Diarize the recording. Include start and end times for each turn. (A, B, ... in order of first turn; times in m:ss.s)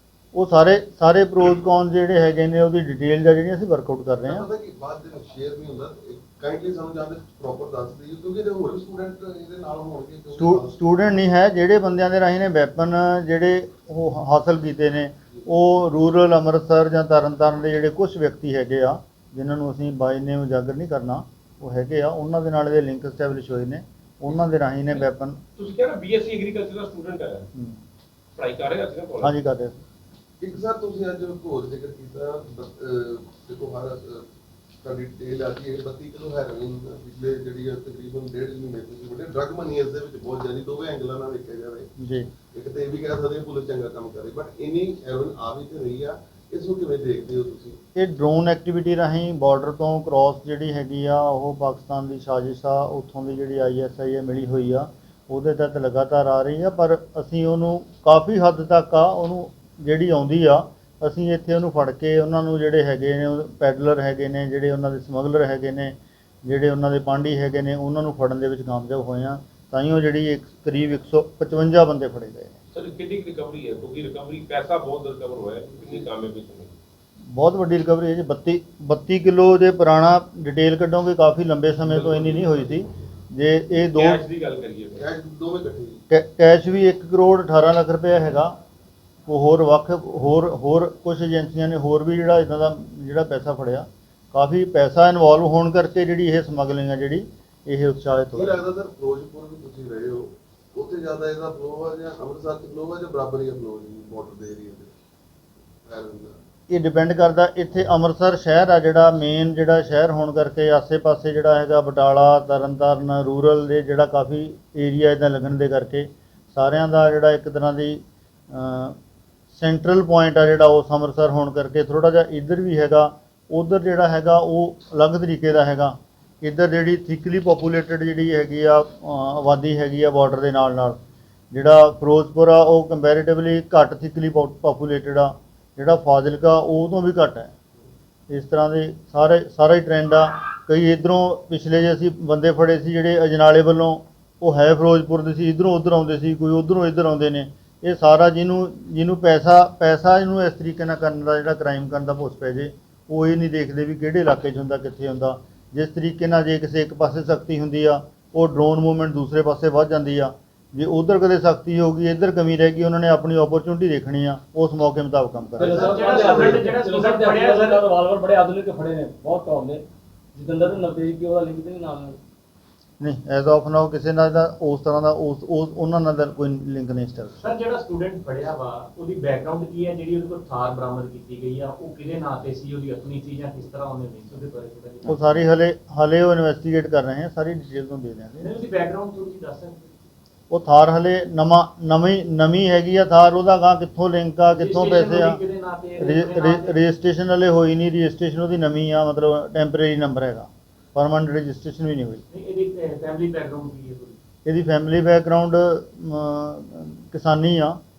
0:00.3-0:04.4 A
0:04.2-0:10.8 B
0:10.4-0:25.4 A
0:25.6-0:27.5 C
0:27.5-0:27.8 A
0:28.3-0:29.3 C
0:29.2-0:29.8 A
0:30.4-0:34.2 B
0:34.8-0:41.9 B
0:42.0-0:42.3 A
0:42.5-0:47.8 B
0:48.0-1:12.5 A
1:12.7-1:16.7 C
1:17.3-1:24.2 A
1:21.9-1:22.6 C
1:23.9-1:25.1 C
1:24.9-1:26.0 B
1:26.1-1:28.5 A
1:29.3-1:38.6 A
1:38.3-1:44.9 B
1:45.8-1:46.3 B
1:46.7-1:59.0 A
1:59.5-2:11.0 A
2:11.5-2:17.5 A
2:18.3-2:45.9 A
2:45.6-2:52.2 D
2:45.7-2:47.8 E
2:53.0-2:57.5 A
2:57.4-3:05.3 E
3:05.0-3:08.5 A
3:08.4-3:10.0 E
3:10.5-3:15.4 A
3:14.5-3:16.8 E
3:16.0-3:22.2 A
3:22.3-3:24.2 E
3:24.4-3:27.8 A